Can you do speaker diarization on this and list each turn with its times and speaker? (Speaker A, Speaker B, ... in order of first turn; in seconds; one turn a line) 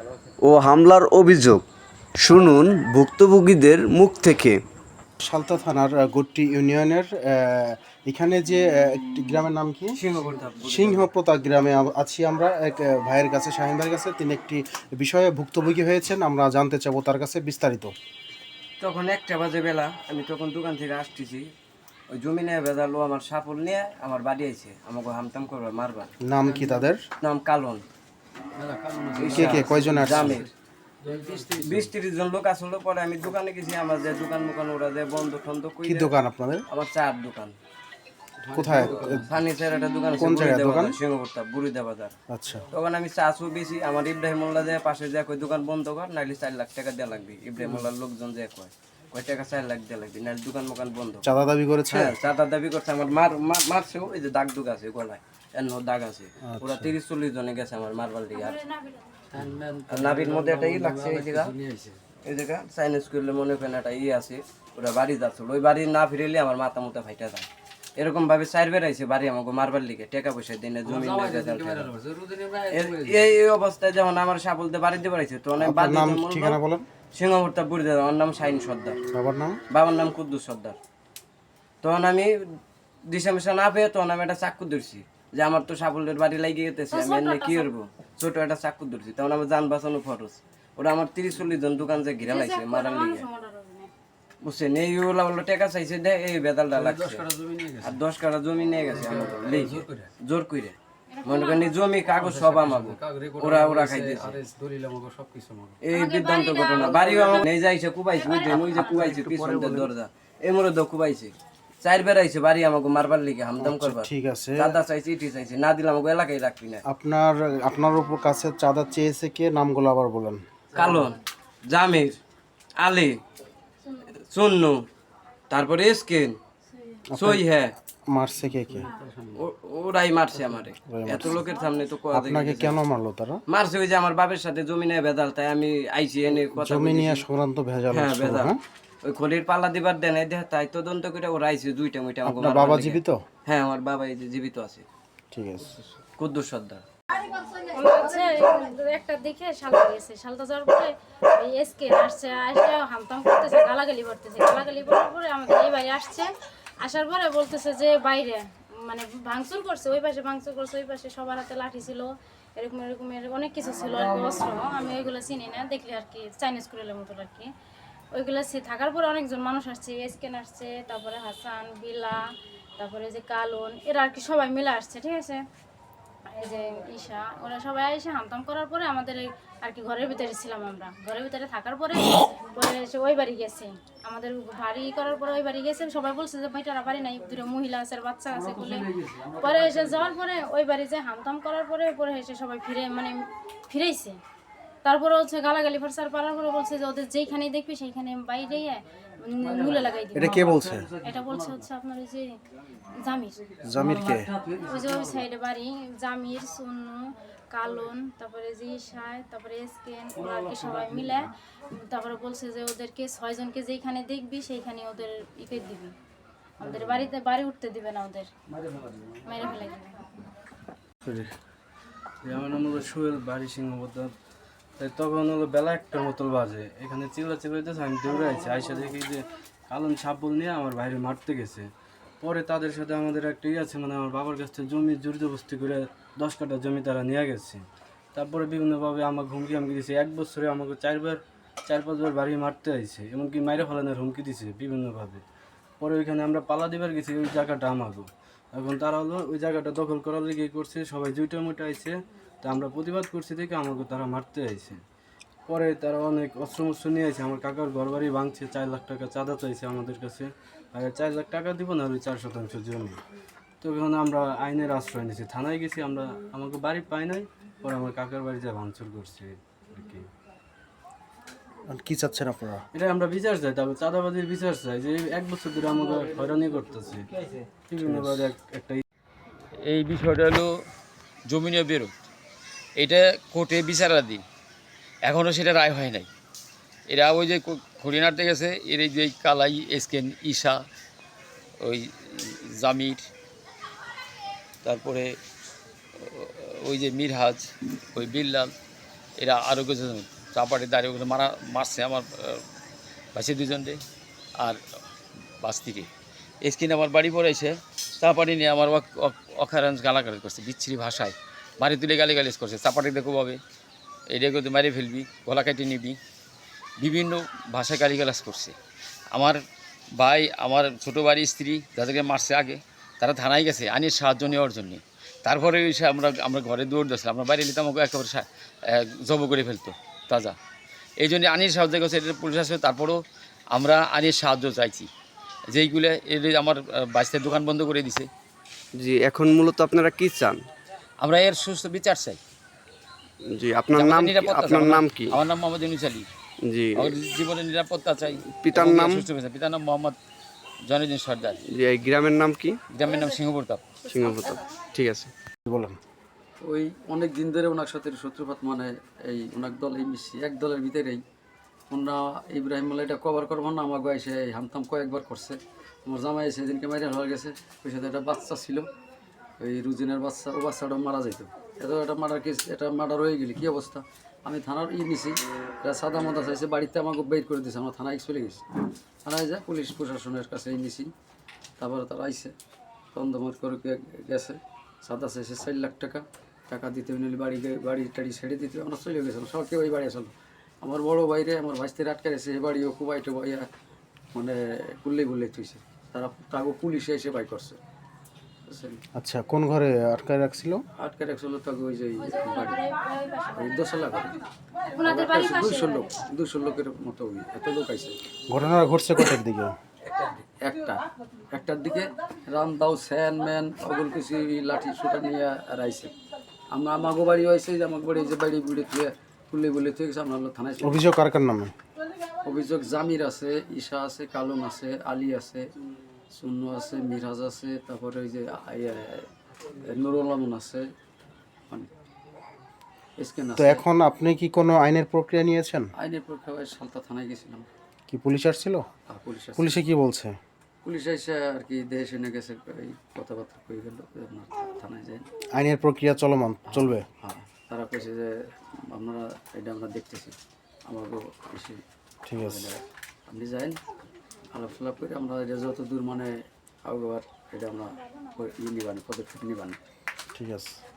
Speaker A: 0.4-1.6
Speaker A: 2.2-4.6
Speaker B: 5.2-10.0
Speaker C: 9.9-11.1
Speaker B: 10.7-17.9
Speaker C: 18.8-21.5
Speaker C: 22.1-26.1
Speaker B: 26.2-27.0
Speaker D: 26.4-26.9
Speaker C: 27.2-27.8
Speaker D: 28.6-30.5
Speaker C: 29.2-30.5
Speaker B: 29.2-30.4
Speaker D: 31.0-31.9
Speaker C: 31.6-36.1
Speaker B: 35.8-36.6
Speaker C: 36.7-37.6
Speaker D: 38.4-39.4
Speaker B: 38.5-39.3
Speaker C: 38.8-42.1
Speaker B: 40.2-41.0
Speaker B: 42.3-42.7
Speaker C: 42.7-51.2
Speaker B: 51.2-52.1
Speaker C: 51.9-58.6
Speaker B: 56.4-56.9
Speaker E: 58.3-59.2
Speaker D: 59.3-62.0
Speaker C: 59.9-61.5
Speaker C: 62.2-71.9
Speaker D: 70.8-73.4
Speaker C: 72.7-76.6
Speaker B: 75.6-76.9
Speaker C: 77.1-79.0
Speaker B: 79.1-79.6
Speaker C: 79.7-80.8
Speaker C: 81.8-82.4
Speaker C: 83.1-93.3
Speaker E: 86.9-87.7
Speaker E: 92.2-93.9
Speaker C: 94.4-97.3
Speaker D: 96.7-98.0
Speaker C: 97.8-104.4
Speaker D: 98.9-100.1
Speaker E: 101.1-101.9
Speaker D: 102.2-105.8
Speaker C: 105.8-116.8
Speaker E: 105.9-107.5
Speaker D: 106.8-107.4
Speaker E: 108.2-109.0
Speaker D: 108.5-109.9
Speaker B: 113.6-114.8
Speaker B: 116.9-120.4
Speaker D: 120.7-121.2
Speaker C: 120.7-122.2
Speaker C: 122.8-123.2
Speaker C: 124.3-124.8
Speaker C: 125.5-126.4
Speaker B: 127.1-127.4
Speaker C: 127.2-127.7
Speaker B: 128.1-128.9
Speaker D: 128.6-129.4
Speaker C: 129.4-132.8
Speaker B: 130.9-131.4
Speaker B: 132.1-133.4
Speaker C: 133.5-137.2
Speaker B: 136.5-138.6
Speaker C: 137.9-144.8
Speaker B: 142.2-143.2
Speaker B: 145.3-145.8
Speaker C: 146.2-146.8
Speaker E: 147.2-167.5
Speaker E: 168.1-172.2
Speaker E: 172.8-175.4
Speaker E: 176.3-194.2
Speaker D: 188.5-189.4
Speaker E: 194.8-200.5
Speaker B: 200.1-200.9
Speaker E: 201.0-202.4
Speaker E: 202.9-203.8
Speaker B: 203.7-204.3
Speaker E: 204.5-215.9
Speaker E: 216.6-218.3
Speaker E: 219.2-220.0
Speaker F: 222.2-224.1
Speaker F: 224.8-231.7
Speaker F: 232.2-245.2
Speaker F: 245.8-254.8
Speaker F: 255.5-263.0
Speaker F: 263.6-270.1
Speaker B: 271.7-272.6
Speaker F: 272.7-278.8
Speaker G: 279.6-280.5
Speaker G: 281.3-282.1
Speaker G: 282.8-284.2
Speaker G: 285.1-286.1
Speaker G: 286.9-290.6
Speaker G: 291.6-293.1
Speaker G: 294.6-295.1
Speaker G: 296.0-298.5
Speaker G: 299.2-302.4
Speaker G: 303.1-303.8
Speaker G: 305.4-305.9
Speaker G: 306.4-313.4
Speaker G: 314.1-316.0
Speaker G: 316.8-318.6
Speaker G: 319.1-319.4
Speaker G: 320.0-330.4
Speaker G: 331.0-333.0
Speaker G: 333.5-334.9
Speaker G: 335.5-338.1
Speaker A: 338.8-340.4
Speaker G: 341.0-342.2
Speaker A: 343.3-345.2
Speaker G: 343.7-346.1
Speaker A: 346.4-347.0
Speaker G: 346.8-350.0
Speaker A: 348.3-349.1
Speaker G: 350.7-351.4
Speaker A: 351.4-352.6
Speaker G: 352.7-353.8
Speaker A: 353.9-355.1
Speaker B: 355.4-355.8
Speaker D: 356.4-361.0
Speaker D: 361.7-368.7
Speaker D: 369.4-378.4
Speaker D: 379.1-380.9
Speaker D: 381.6-382.3
Speaker D: 382.9-393.5
Speaker D: 394.1-397.6
Speaker D: 398.5-398.8
Speaker B: 399.0-400.6
Speaker D: 400.8-402.7
Speaker E: 402.1-403.6
Speaker D: 403.3-404.1
Speaker E: 404.7-405.9
Speaker D: 404.8-408.0
Speaker B: 408.3-409.6
Speaker D: 410.4-415.9
Speaker D: 416.5-420.9
Speaker B: 420.6-421.5
Speaker D: 422.2-425.5
Speaker D: 426.1-429.1
Speaker D: 429.7-430.7
Speaker D: 433.0-433.6
Speaker B: 433.4-435.7
Speaker D: 435.8-437.5
Speaker B: 437.9-438.6
Speaker D: 438.9-439.6
Speaker B: 439.4-440.2
Speaker D: 440.6-445.1
Speaker B: 445.4-446.9
Speaker D: 446.5-448.1
Speaker D: 448.7-450.2
Speaker D: 450.7-451.6
Speaker B: 452.1-452.5
Speaker D: 452.2-453.6
Speaker D: 454.3-456.1
Speaker D: 456.6-459.6
Speaker B: 460.1-460.6